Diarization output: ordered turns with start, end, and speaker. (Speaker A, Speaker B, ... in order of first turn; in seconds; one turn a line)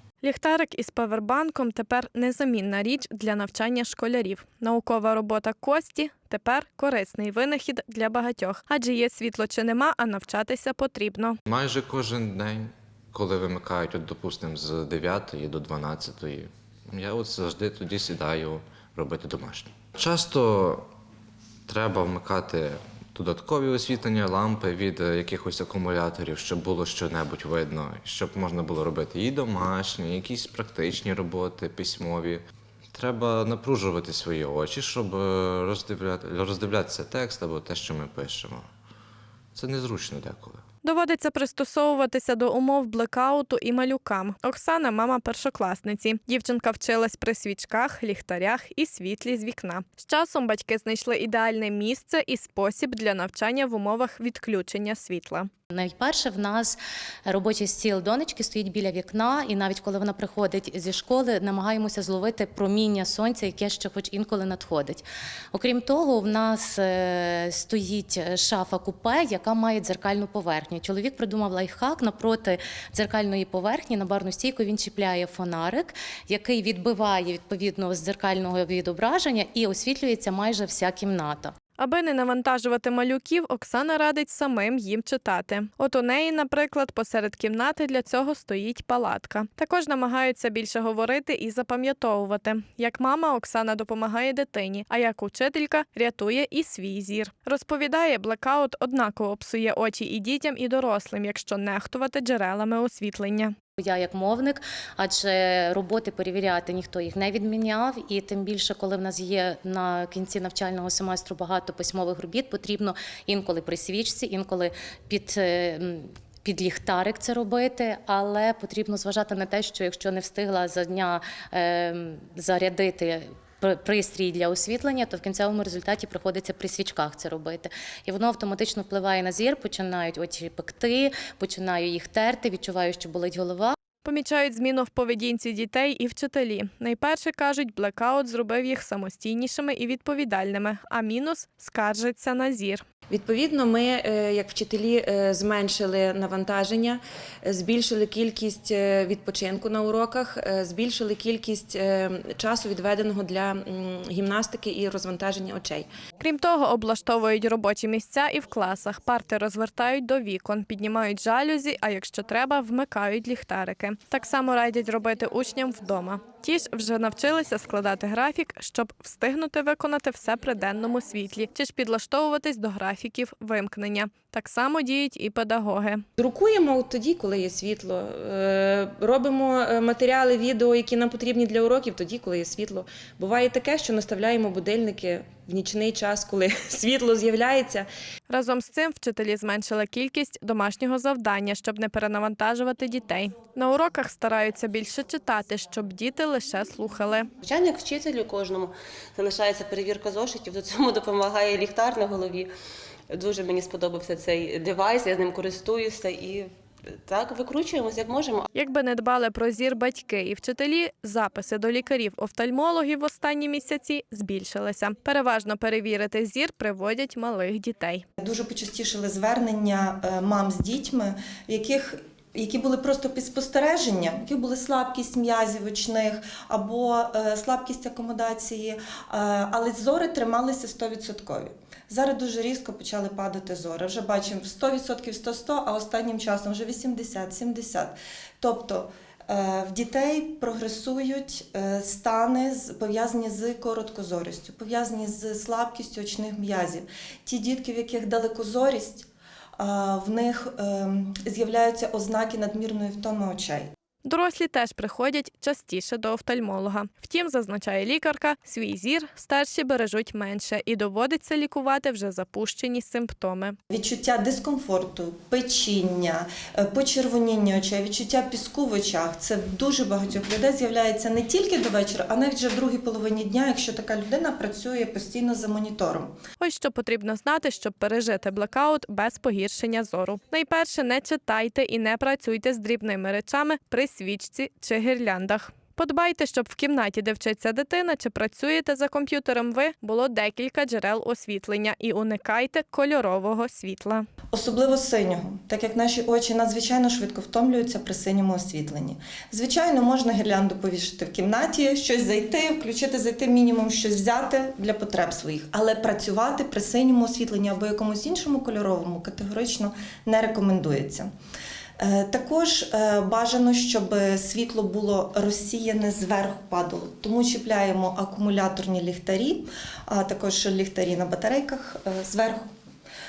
Speaker A: 0.2-11.4
Speaker B: 11.5-20.9
Speaker B: 21.7-38.7
Speaker B: 39.5-40.6
Speaker A: 40.8-55.5
Speaker C: 55.7-81.5
Speaker A: 81.8-103.5
Speaker C: 103.8-133.8
Speaker A: 134.0-142.8
Speaker D: 143.1-155.9
Speaker A: 156.2-176.0
Speaker D: 176.2-187.9
Speaker A: 188.3-197.3
Speaker E: 197.4-202.5
Speaker E: 203.1-206.5
Speaker E: 207.1-208.5
Speaker A: 208.5-218.0
Speaker F: 218.2-253.7
Speaker A: 254.1-263.6
Speaker F: 263.7-276.1
Speaker A: 276.4-294.1
Speaker F: 294.3-311.1
Speaker F: 311.8-322.5